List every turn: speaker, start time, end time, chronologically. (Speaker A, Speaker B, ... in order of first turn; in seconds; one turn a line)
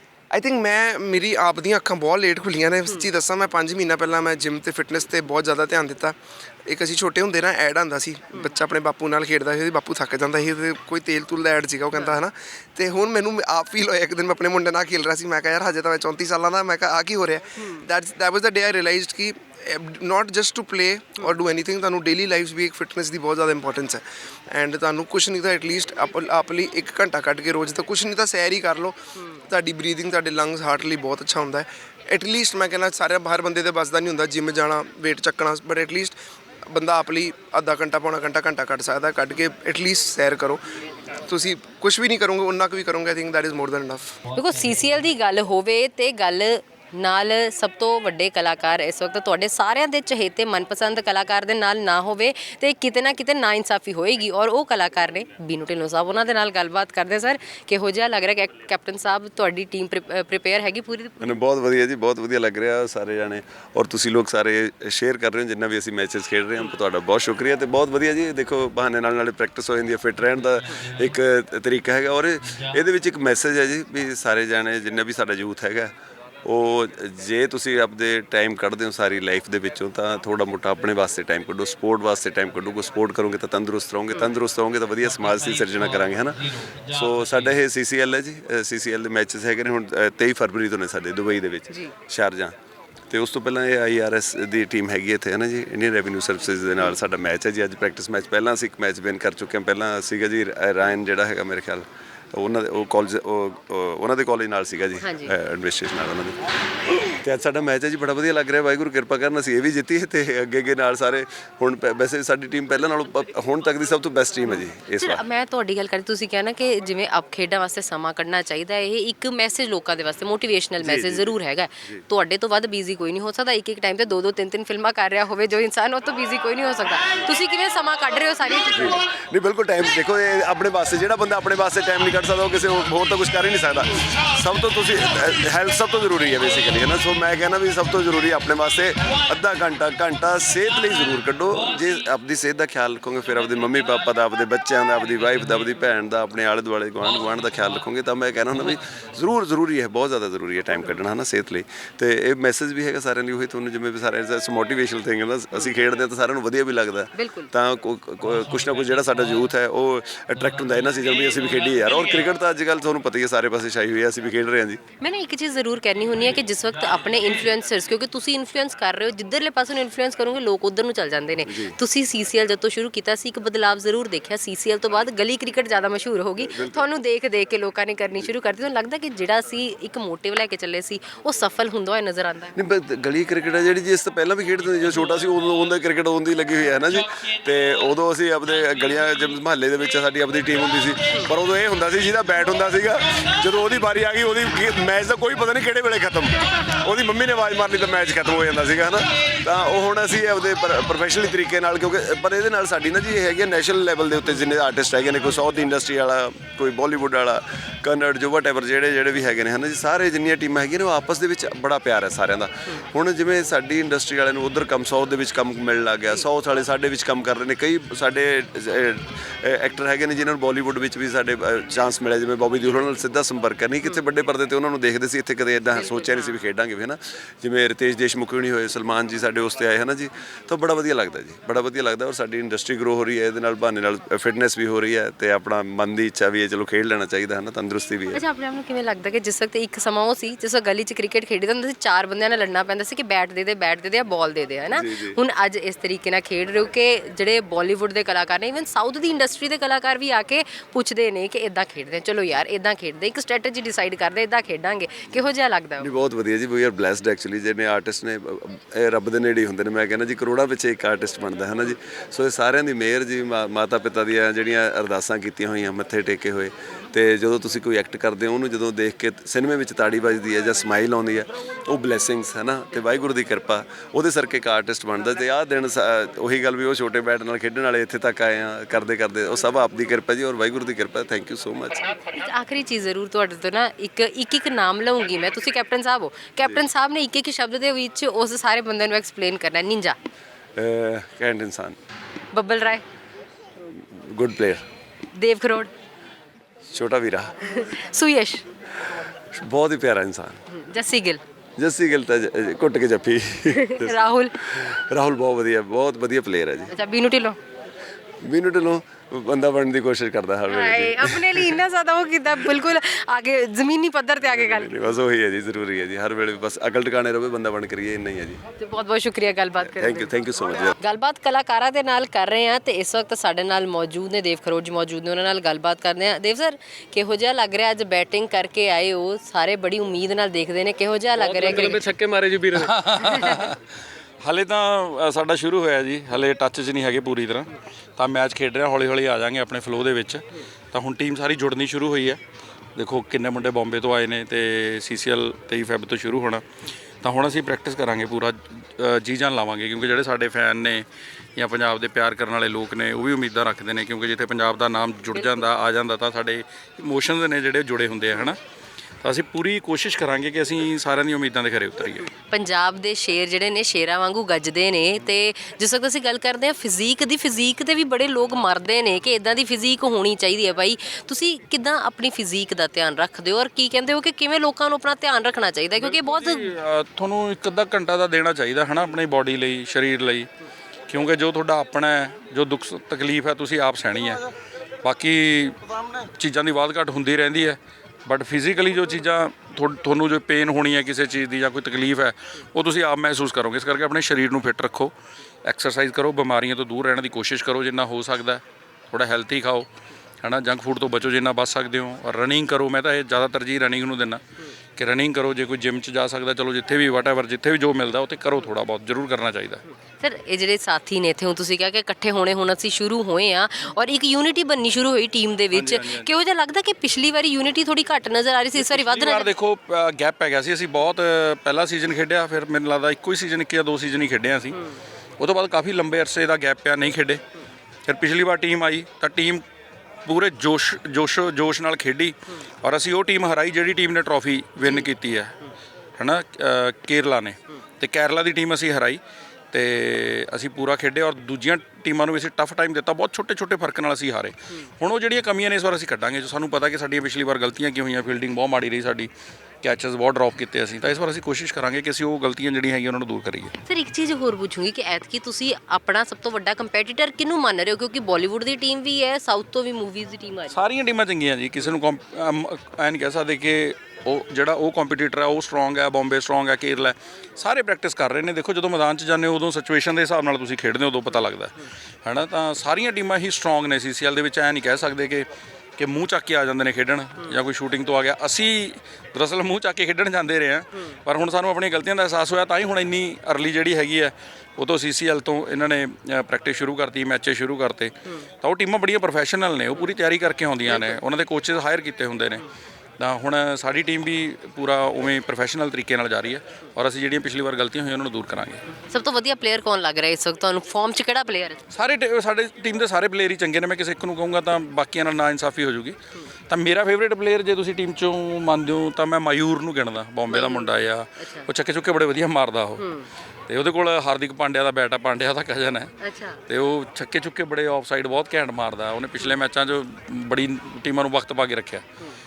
Speaker A: 0.3-6.1
Speaker A: 6.7-28.9
Speaker A: 29.5-36.1
Speaker A: 36.7-40.6
Speaker A: 41.3-44.2
Speaker B: 44.3-61.4
Speaker C: 61.2-75.9
Speaker C: 76.4-92.5
Speaker C: 93.1-106.4
Speaker B: 105.0-105.3
Speaker C: 107.0-115.2
Speaker B: 114.5-129.0
Speaker C: 120.8-121.3
Speaker C: 128.7-164.8
Speaker B: 157.2-157.5
Speaker B: 165.0-182.6
Speaker C: 171.4-171.8
Speaker C: 176.4-176.9
Speaker C: 182.6-238.2
Speaker B: 238.1-255.9
Speaker C: 244.7-245.2
Speaker C: 255.8-281.8
Speaker B: 282.1-290.0
Speaker C: 290.6-291.8
Speaker B: 292.3-292.8
Speaker C: 293.8-294.6
Speaker B: 295.1-295.7
Speaker C: 296.7-297.3
Speaker B: 297.5-298.4
Speaker C: 299.3-300.4
Speaker B: 300.5-301.2
Speaker C: 301.6-306.7
Speaker B: 303.6-304.4
Speaker B: 306.7-307.4
Speaker C: 308.2-311.6
Speaker B: 310.5-314.7
Speaker C: 314.3-318.4
Speaker B: 318.6-320.1
Speaker C: 319.7-320.8
Speaker B: 320.8-331.8
Speaker D: 331.1-333.2
Speaker E: 332.5-333.6
Speaker E: 334.2-342.2
Speaker E: 342.8-346.4
Speaker E: 347.0-358.4
Speaker E: 359.0-362.1
Speaker B: 362.3-376.5
Speaker E: 375.8-380.3
Speaker E: 380.9-384.2
Speaker E: 384.8-394.9
Speaker E: 395.4-399.7
Speaker E: 400.2-404.2
Speaker E: 404.8-409.6
Speaker B: 410.0-419.3
Speaker E: 415.5-416.1
Speaker E: 418.6-424.6
Speaker E: 425.2-427.2
Speaker E: 427.9-429.4
Speaker E: 430.0-435.4
Speaker E: 436.0-439.0
Speaker E: 439.5-449.1
Speaker E: 449.6-453.5
Speaker B: 453.6-460.6
Speaker E: 460.5-492.4
Speaker E: 493.0-498.6
Speaker B: 498.9-501.6
Speaker E: 501.7-506.0
Speaker E: 506.5-512.8
Speaker B: 510.3-511.5
Speaker B: 512.8-513.1
Speaker E: 513.5-515.9
Speaker B: 516.0-516.4
Speaker E: 516.5-521.9